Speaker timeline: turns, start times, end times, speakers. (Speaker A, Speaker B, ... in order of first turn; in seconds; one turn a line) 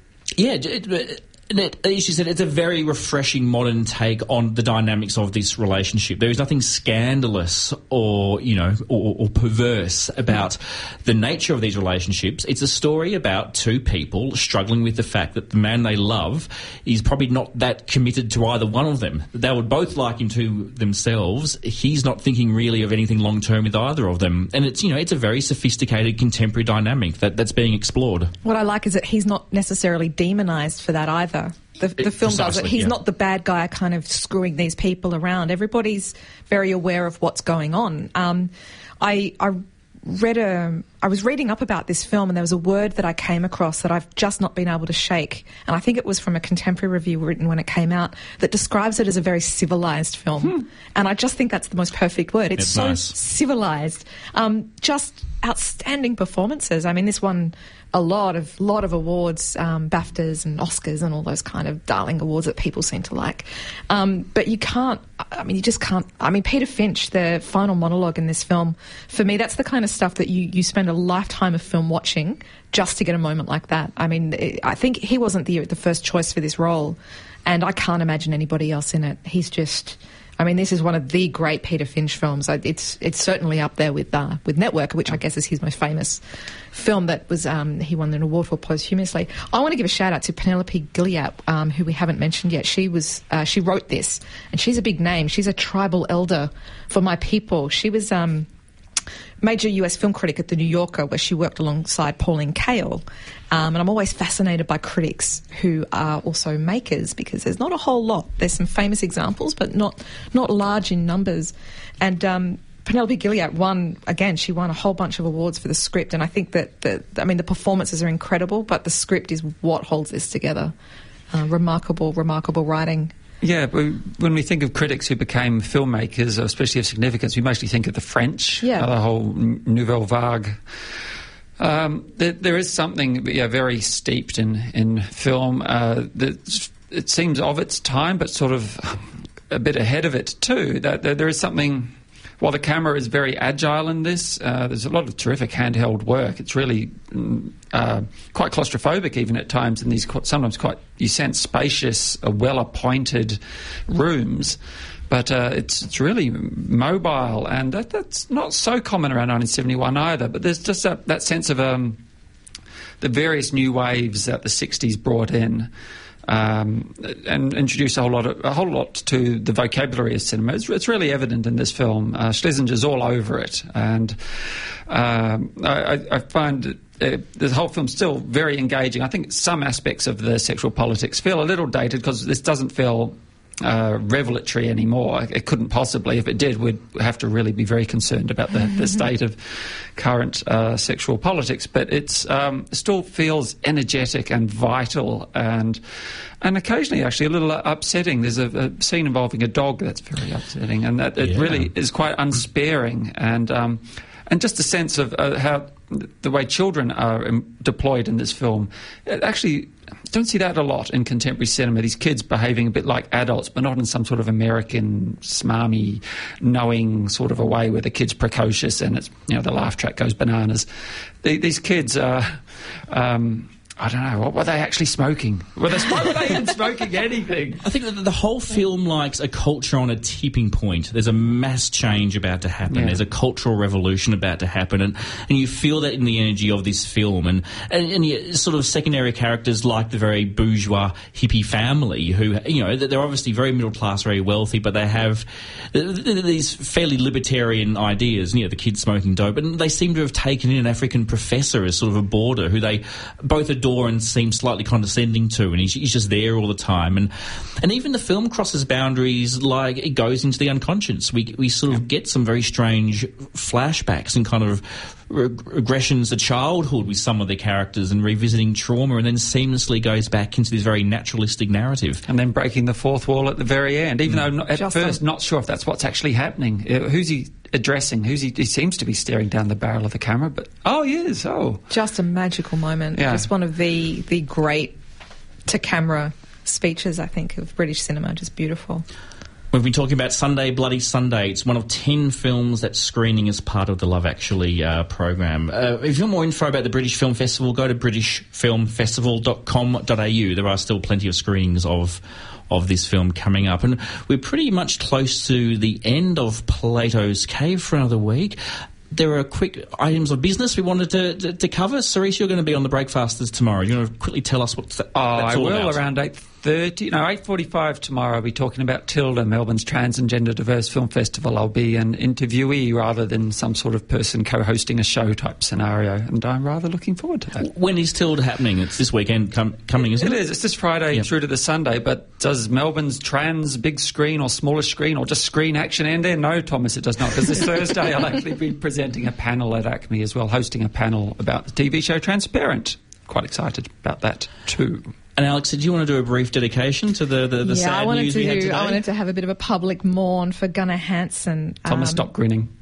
Speaker A: 0.4-28.3
Speaker B: 28.4-86.2
Speaker A: 32.0-32.9
Speaker A: 52.6-53.1
Speaker B: 86.7-98.5
Speaker B: 99.4-120.7
Speaker B: 121.3-123.1
Speaker C: 123.4-130.6
Speaker B: 128.6-128.9
Speaker C: 131.6-154.6
Speaker C: 155.1-162.0
Speaker C: 163.0-165.7
Speaker C: 166.3-174.2
Speaker C: 174.9-195.8
Speaker C: 196.4-220.7
Speaker A: 201.2-201.7
Speaker C: 221.2-227.6
Speaker A: 227.6-257.1
Speaker C: 232.7-233.0
Speaker A: 257.6-272.0
Speaker C: 272.1-281.6
Speaker B: 274.6-275.0
Speaker B: 281.7-284.8
Speaker C: 282.9-283.3
Speaker B: 285.5-288.9
Speaker A: 289.5-308.4
Speaker A: 308.9-315.8
Speaker C: 314.9-327.5
Speaker A: 327.4-330.2
Speaker C: 329.9-344.9
Speaker A: 345.2-348.8
Speaker B: 347.4-352.1
Speaker C: 351.7-352.5